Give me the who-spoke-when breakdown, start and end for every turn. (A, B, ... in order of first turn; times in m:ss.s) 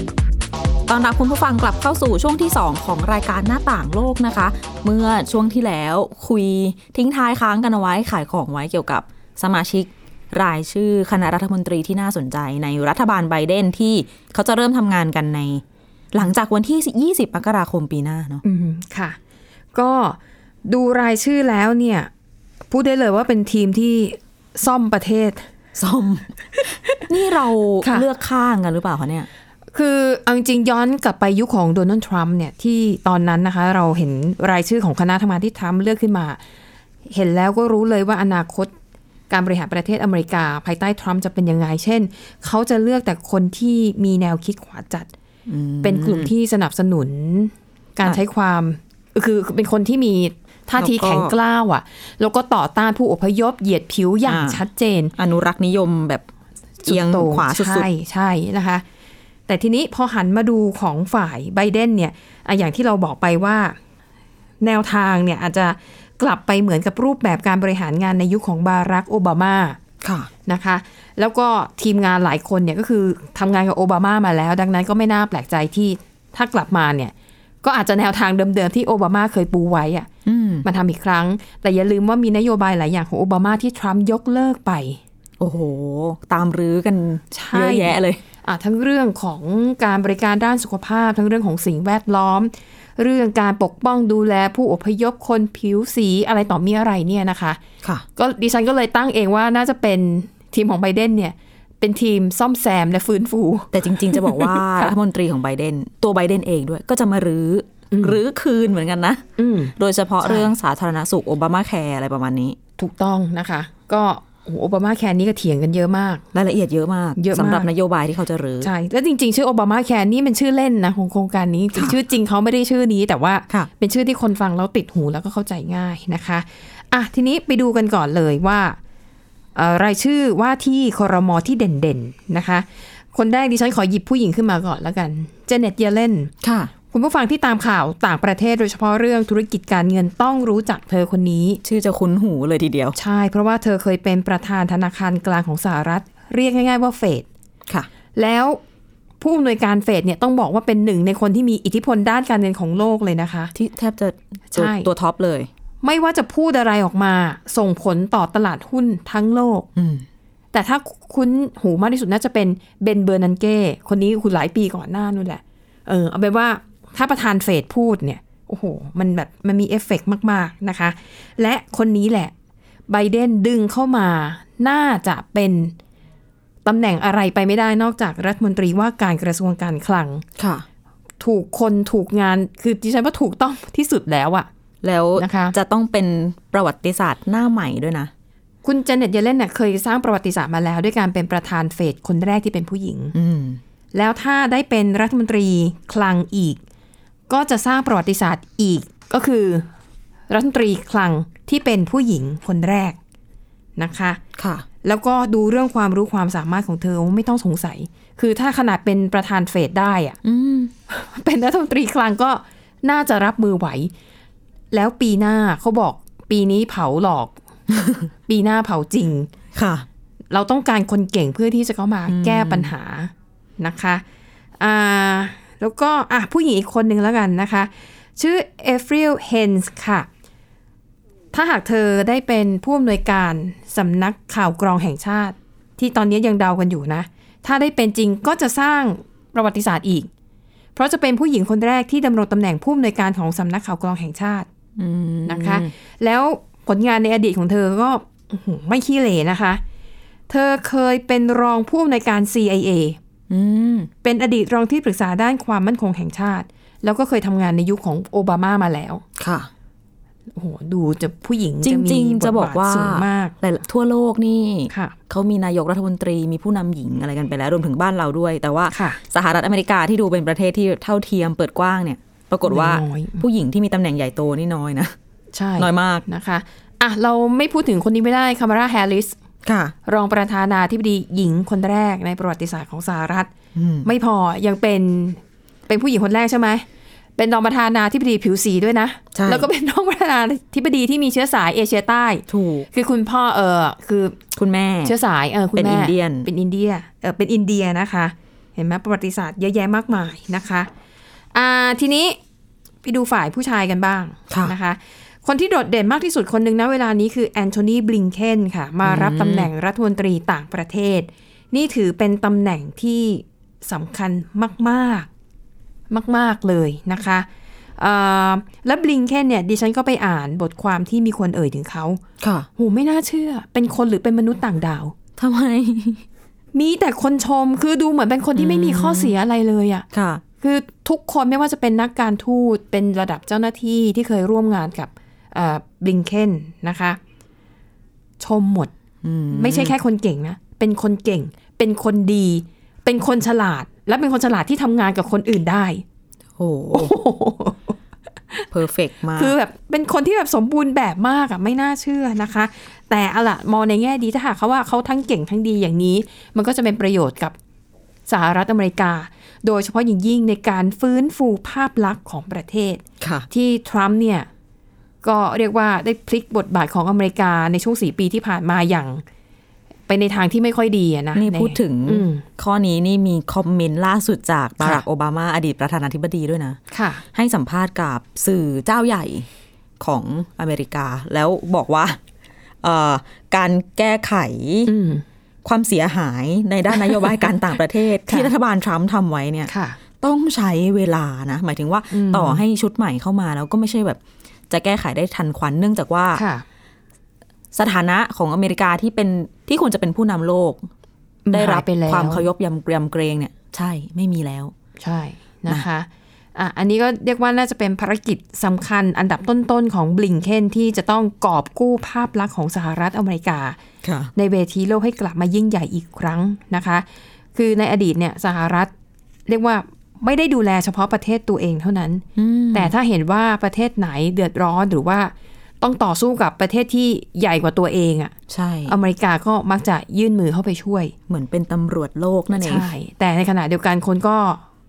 0:00.9-0:18.4 A
0:18.4-0:19.2 B
0:19.7-0:22.1 B
0:22.7-0:25.5 B
0:25.8-0:26.4 A
0:26.9-0:29.3 A
0:29.7-0:36.4 B
0:37.1-0:38.7 B
0:39.3-0:45.1 B
0:45.5-0:46.3 A
0:45.8-0:55.1 B
0:50.8-0:51.3 A
0:54.3-0:54.6 A
0:55.2-0:56.3 A
0:56.8-0:58.8 B
0:56.8-0:57.9 A
0:59.5-1:03.8 B
1:04.6-1:09.8 B
1:10.0-1:10.3 A
1:10.5-1:20.1 B
1:20.3-1:20.7 A
1:20.6-1:25.0 B
1:25.4-1:28.2 A
1:27.3-1:37.6 B
1:38.2-1:44.9 B
1:43.7-1:49.2 A
1:47.9-1:48.2 B
1:49.4-1:50.5 B
1:49.8-1:52.6 A
1:52.8-1:56.2 B
1:56.3-1:58.7 A
1:57.2-1:57.7 B
1:58.6-2:08.8 B
2:09.6-2:16.3 B
2:16.4-2:16.7 A
2:16.9-2:21.6 B
2:21.6-2:23.0 A
2:23.0-2:27.3 B
2:28.2-2:28.6 B
2:29.2-2:33.5 B
2:33.5-2:35.5 A
2:34.5-2:34.9 B
2:35.8-2:39.7 B
2:39.8-2:40.1 A
2:40.5-2:52.3 B
2:52.9-2:55.8 B
2:56.6-3:00.2 B
3:00.4-3:00.7 A
3:01.2-3:04.5 B
3:04.8-3:08.1 A
3:05.2-3:05.6 B
3:08.6-3:13.1 B
3:13.1-3:13.6 A
3:13.9-3:16.6 B
3:17.3-3:19.7 B
3:20.3-3:23.0 B
3:23.8-3:24.2 B
3:24.4-3:24.7 A
3:24.8-3:30.2 B
3:30.2-3:30.7 A
3:30.9-3:33.9 B
3:34.7-3:37.4 B
3:37.7-3:38.1 A
3:38.3-3:39.3 B
3:39.5-3:39.9 A
3:40.3-3:44.0 B
3:42.1-3:42.7 A
3:44.6-3:50.1 B
3:51.3-4:00.1 B
4:00.8-4:04.5 B
4:04.8-4:05.7 A
4:05.3-4:09.6 B
4:10.3-4:13.0 B
4:13.3-4:13.9 A
4:14.0-4:19.0 B
4:19.2-4:19.5 A
4:20.4-4:23.4 B
4:21.6-4:35.0 A
4:24.7-4:25.0 B
4:28.7-4:29.0 B
4:32.5-4:33.2 B
4:35.3-4:39.2 B
4:35.6-4:36.0 A
4:39.4-4:39.8 A
4:39.9-4:43.3 B
4:43.6-4:43.9 A
4:43.8-4:46.6 B
4:47.2-4:54.2 B
4:49.1-4:49.5 A
4:52.3-4:52.7 A
4:54.4-4:55.0 A
4:54.8-5:00.7 B
4:55.5-4:56.3 A
5:01.3-5:02.2 B
5:02.8-5:15.1 B
5:04.3-5:04.6 A
5:08.8-5:09.5 A
5:15.9-5:17.3 B
5:17.8-5:22.0 B
5:22.2-5:22.5 A
5:22.6-5:24.9 B
5:25.2-5:26.0 A
5:26.5-5:29.8 B
5:28.4-5:29.2 A
5:29.9-5:30.2 A
5:30.4-5:37.0 B
5:38.2-5:38.7 B
5:39.0-5:39.8 A
5:39.3-5:45.8 B
5:46.4-5:47.0 A
5:46.7-5:47.8 B
5:48.5-5:49.4 A
5:49.2-5:57.4 B
5:58.1-6:04.3 B
6:03.0-6:03.3 A
6:05.0-6:09.0 B
6:09.9-6:12.2 B
6:11.2-6:16.6 A
6:16.7-6:17.0 B
6:17.1-6:19.3 A
6:19.8-6:22.0 A
6:22.6-6:24.7 A
6:24.7-6:25.0 B
6:25.4-6:36.2 A
6:26.8-6:27.2 B
6:28.1-6:28.3 B
6:29.5-6:29.8 B
6:31.9-6:32.4 B
6:36.1-6:36.4 B
6:37.5-6:40.7 A
6:41.3-6:42.3 B
6:41.3-6:44.5 A
6:44.8-6:53.6 B
6:53.8-6:54.1 A
6:54.2-6:58.7 B
6:59.3-7:08.2 B
7:02.2-7:02.7 A
7:08.3-7:08.8 A
7:08.7-7:10.9 B
7:11.1-7:12.7 A
7:12.3-7:14.4 B